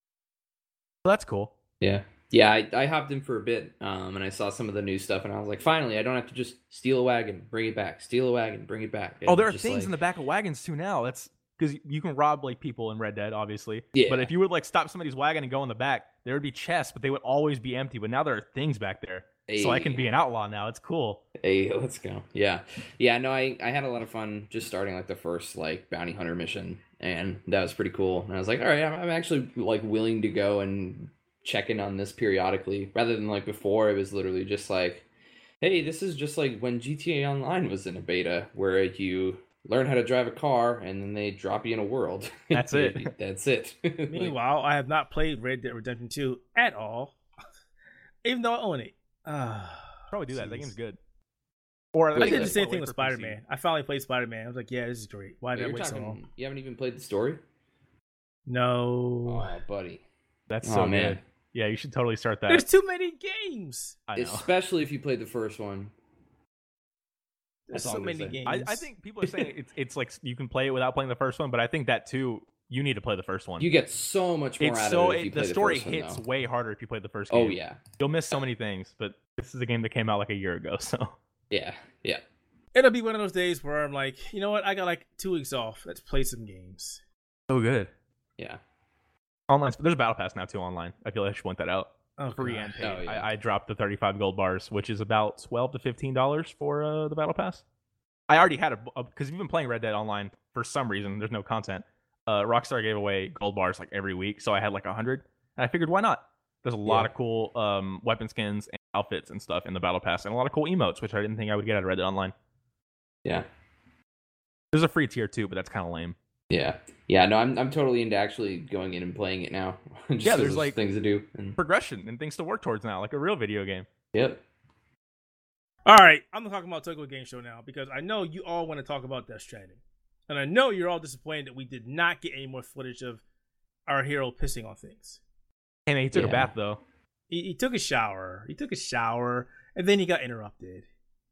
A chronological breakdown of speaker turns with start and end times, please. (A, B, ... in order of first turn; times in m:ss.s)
0:01.0-0:01.5 A
0:01.8-0:09.9 B
0:09.3-0:21.2 A
0:13.9-0:14.3 B
0:19.5-0:20.0 B
0:21.4-0:35.1 B
0:35.6-0:44.3 B
0:42.5-0:43.1 A
0:44.1-0:47.2 C
0:48.2-0:50.7 C
0:50.1-0:51.0 A
0:52.0-0:53.4 A
0:52.1-0:52.6 B
0:52.2-0:56.2 C
0:55.6-0:57.4 B
0:58.5-0:59.5 C
0:59.3-1:00.0 B
1:00.5-1:02.7 A
1:00.6-1:01.2 B
1:02.5-1:04.0 C
1:04.1-1:04.5 A
1:04.2-1:05.9 B
1:07.7-1:08.9 C
1:07.7-1:08.4 B
1:08.5-1:13.7 A
1:09.2-1:09.5 B
1:13.6-1:16.2 B
1:14.6-1:21.2 A
1:17.3-1:17.8 B
1:21.5-1:22.2 B
1:22.8-1:27.0 C
1:27.5-1:27.9 A
1:29.5-1:37.6 A
1:32.2-1:33.0 C
1:32.8-1:33.3 B
1:38.3-1:52.3 A
1:46.9-1:47.1 B
1:54.7-1:56.2 A
1:56.5-2:01.6 B
2:00.2-2:00.8 A
2:01.6-2:03.9 A
2:04.1-2:04.4 B
2:05.9-2:13.2 C
2:13.9-2:15.2 C
2:15.9-2:16.8 A
2:16.1-2:16.5 B
2:17.3-2:20.9 C